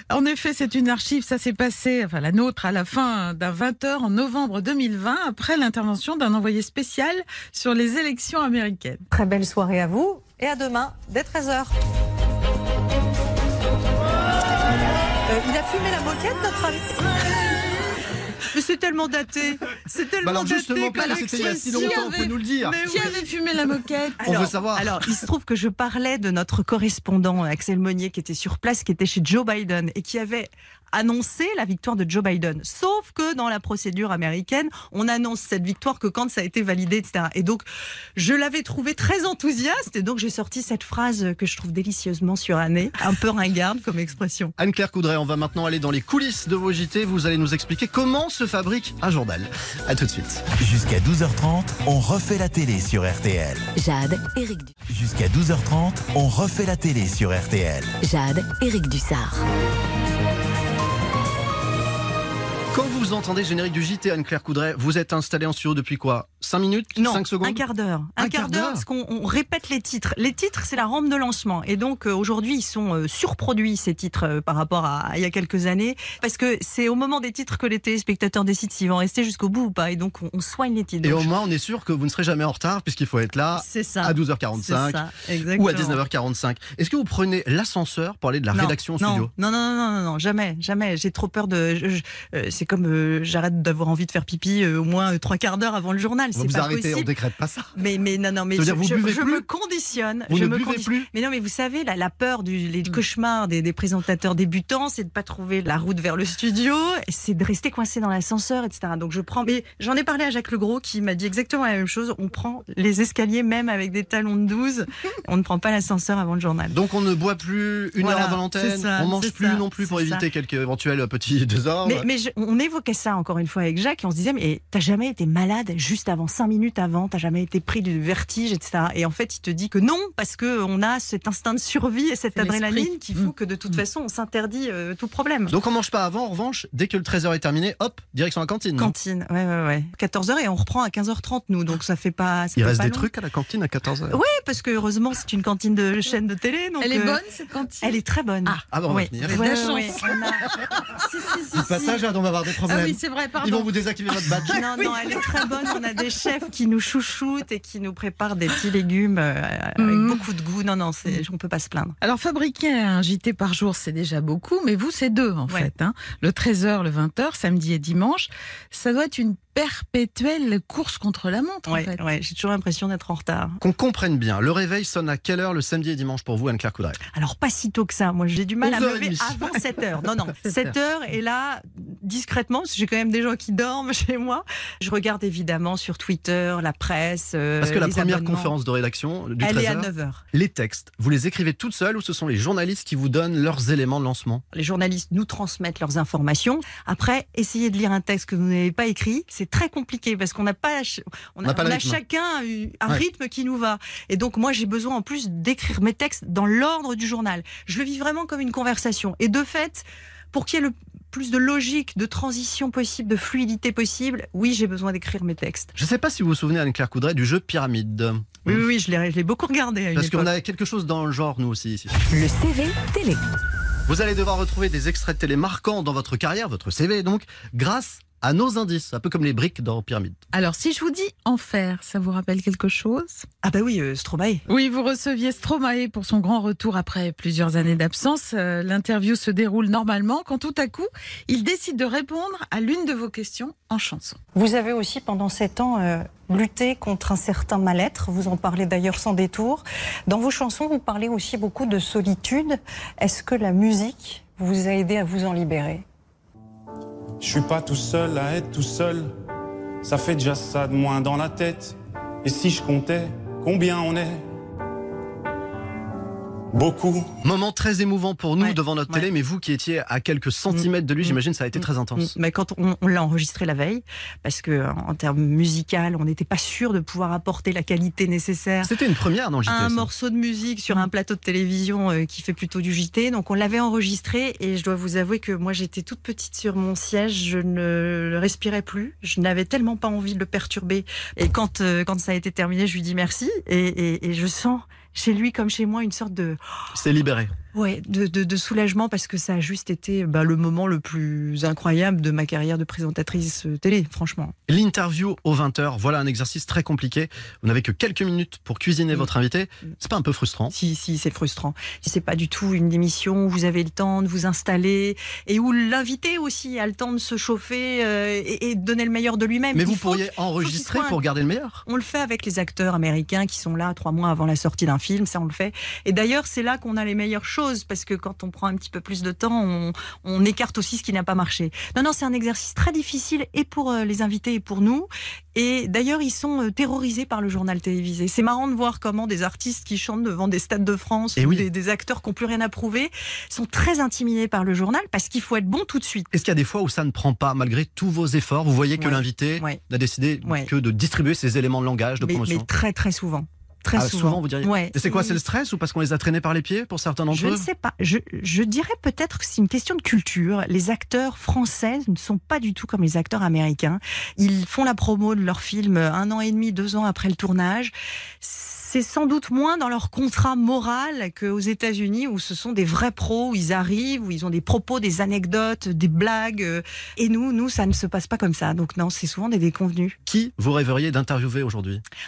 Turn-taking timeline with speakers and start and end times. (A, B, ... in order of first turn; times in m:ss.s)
0:00.1-0:09.0 A
0:09.1-0:11.7 B
0:15.3-0:17.4 C
0:18.5-0:23.2 C
0:20.2-0:22.8 D
0:20.9-0:24.2 A
0:24.2-0:44.6 C
0:24.2-0:24.9 D
0:44.6-0:50.4 D
0:50.5-0:53.7 E
0:53.8-0:54.7 F
0:54.9-0:58.0 E
0:58.0-0:59.4 F
1:02.7-1:07.6 D
1:07.0-1:21.3 C
1:08.2-1:08.8 D
1:21.0-1:25.0 D
1:23.6-1:26.0 C
1:25.5-1:29.3 D
1:28.5-1:37.1 C
1:36.4-1:37.7 D
1:37.8-1:56.8 C
1:38.5-1:39.5 D
1:40.3-1:41.1 D
1:56.7-2:02.1 D
1:58.0-2:00.2 C
2:01.9-2:15.6 C
2:12.4-2:13.8 A
2:15.5-2:18.9 D
2:18.8-2:23.1 C
2:22.6-2:24.2 D
2:24.1-2:27.2 C
2:26.8-2:28.6 A
2:27.8-2:32.0 C
2:28.7-2:29.9 D
2:29.2-2:30.2 A
2:31.5-2:34.7 D
2:32.7-2:34.8 A
2:34.5-2:41.9 C
2:39.8-2:40.2 A
2:42.0-2:52.0 A
2:51.7-2:53.6 C
2:53.6-2:57.0 D
2:57.1-3:08.5 C
2:58.6-2:59.6 D
3:00.4-3:00.7 A
3:07.6-3:14.4 D
3:09.4-3:10.2 C
3:14.5-3:35.7 C
3:21.4-3:22.0 D
3:35.8-3:38.6 D
3:38.4-3:40.3 C
3:39.9-3:41.9 D
3:42.1-3:43.2 F
3:43.9-3:50.2 D
3:50.3-3:53.3 A
3:53.4-3:54.4 C
3:54.5-4:04.2 A
4:04.3-4:15.8 B
4:17.2-4:19.1 G
4:19.8-4:24.2 G
4:26.5-4:27.1 G
4:27.2-4:32.1 D
4:28.4-4:29.0 C
4:30.5-4:31.2 C
4:32.0-4:38.7 C
4:38.6-4:39.9 D
4:39.5-4:56.4 C
4:56.7-4:57.3 D
4:57.5-5:04.3 C
5:04.5-5:10.6 D
5:10.5-5:21.0 C
5:19.5-5:21.6 D
5:21.7-5:46.1 C
5:41.2-5:41.4 D
5:46.1-5:52.5 D
5:48.8-5:49.6 C
5:50.2-5:50.5 C
5:52.0-5:55.2 C
5:53.8-5:57.5 D
5:57.1-6:20.0 C
6:20.1-6:21.8 D